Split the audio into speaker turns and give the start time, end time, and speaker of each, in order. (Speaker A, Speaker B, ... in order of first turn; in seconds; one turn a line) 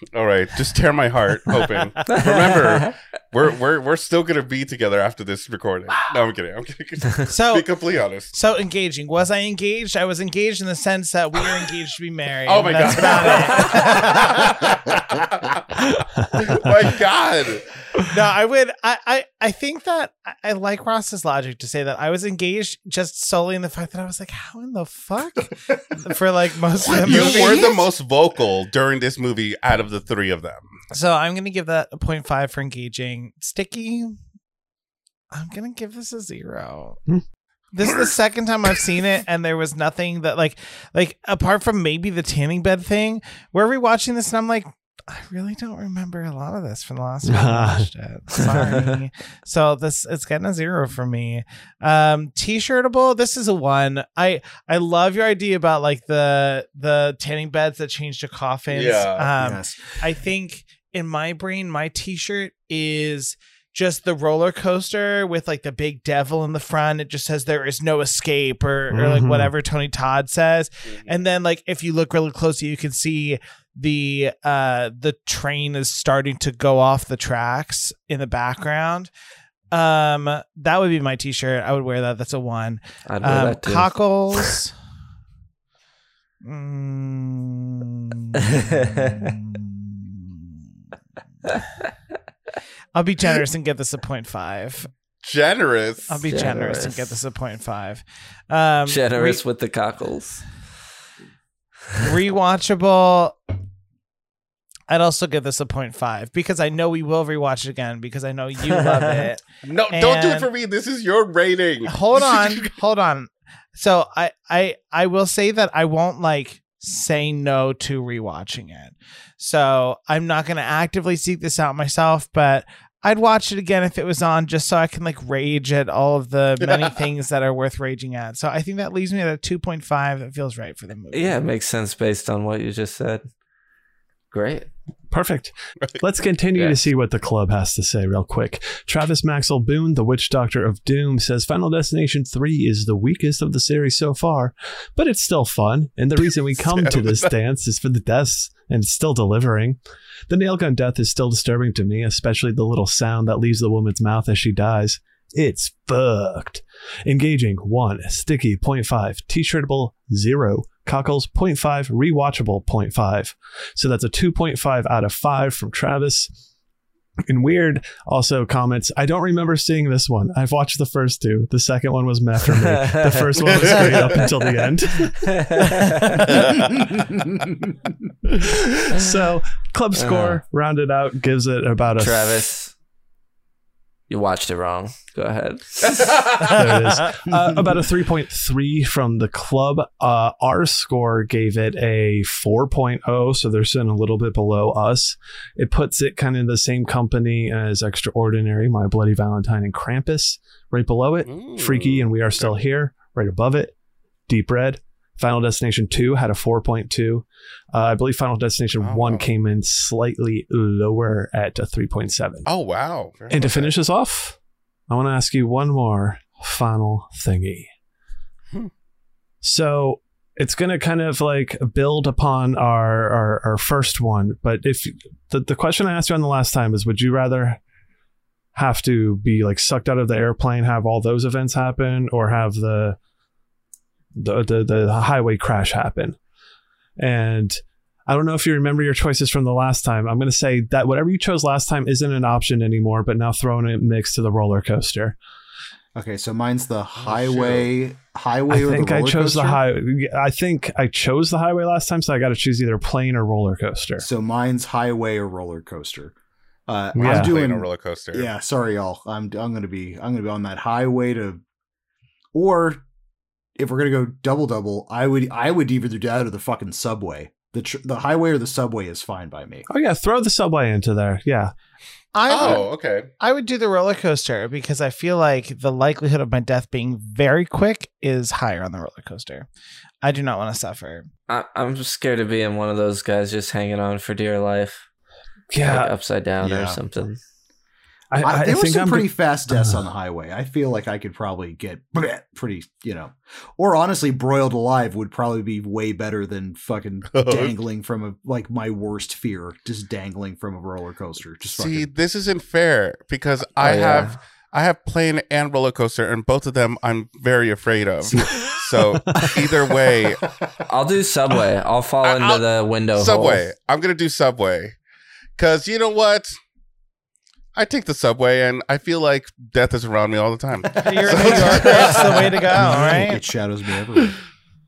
Speaker A: 0.1-8.3
Speaker B: 2.1-2.9
Speaker C: 7.3-7.7
Speaker C: 8.3-14.7
Speaker A: 12.4-17.7
Speaker D: 15.9-16.7
Speaker C: 18.1-27.9
Speaker A: 26.8-30.7
Speaker E: 27.1-27.4
Speaker C: 30.9-34.2
Speaker C: 35.3-37.0
Speaker C: 37.7-79.1
Speaker D: 47.2-47.9
Speaker B: 48.4-48.8
Speaker A: 58.7-59.3
Speaker E: 59.4-60.0
Speaker D: 68.9-69.5
Speaker C: 79.7-84.7
Speaker B: 83.1-84.6
Speaker C: 86.4-90.5
Speaker B: 88.3-89.3
Speaker C: 92.9-94.9
Speaker A: 95.2-96.2
Speaker C: 96.1-99.4
Speaker B: 96.2-97.1
Speaker B: 98.9-100.4
Speaker C: 102.0-103.4
Speaker C: 104.9-110.5
Speaker B: 108.7-109.3
Speaker A: 109.6-112.8
Speaker C: 111.8-131.4
Speaker A: 126.6-127.0
Speaker B: 131.1-133.2
Speaker B: 134.3-134.7
Speaker D: 135.1-149.8
Speaker A: 146.6-147.3
Speaker D: 150.3-166.3
Speaker D: 167.3-175.4
Speaker B: 172.5-173.2
Speaker A: 173.5-174.2
Speaker B: 175.1-176.3
Speaker A: 176.2-176.9
Speaker E: 176.8-177.3
Speaker D: 178.4-182.5
Speaker B: 179.9-180.4
Speaker B: 182.0-182.7
Speaker B: 184.1-186.2
Speaker A: 185.8-186.6
Speaker D: 186.4-203.7
Speaker A: 201.2-202.5
Speaker D: 204.3-212.5
Speaker A: 208.8-209.2
Speaker A: 212.4-213.7
Speaker D: 213.3-214.4
Speaker D: 214.9-217.7
Speaker D: 219.4-227.6
Speaker D: 228.5-233.0
Speaker D: 234.1-236.2
Speaker D: 237.0-245.2
Speaker E: 245.9-249.6
Speaker A: 247.0-247.7
Speaker D: 248.5-254.1
Speaker E: 254.0-256.1
Speaker E: 256.7-261.4
Speaker D: 256.9-257.4
Speaker A: 257.0-258.3
Speaker E: 262.3-262.8
Speaker E: 263.6-269.6
Speaker D: 269.7-271.5
Speaker C: 272.1-279.5
Speaker A: 272.3-273.1
Speaker C: 280.0-281.1
Speaker B: 281.3-284.8
Speaker D: 285.5-285.9
Speaker B: 285.6-287.2
Speaker E: 286.4-286.8
Speaker D: 288.1-289.8
Speaker E: 288.2-301.9
Speaker A: 297.1-297.5
Speaker A: 301.5-310.2
Speaker B: 303.6-304.2
Speaker E: 308.1-308.5
Speaker D: 309.1-309.4
Speaker E: 310.0-310.5
Speaker B: 310.7-313.4
Speaker A: 312.0-314.8
Speaker A: 315.4-316.4
Speaker A: 317.5-322.7
Speaker C: 320.8-323.2
Speaker E: 320.8-322.0
Speaker D: 322.6-323.1
Speaker E: 322.6-324.2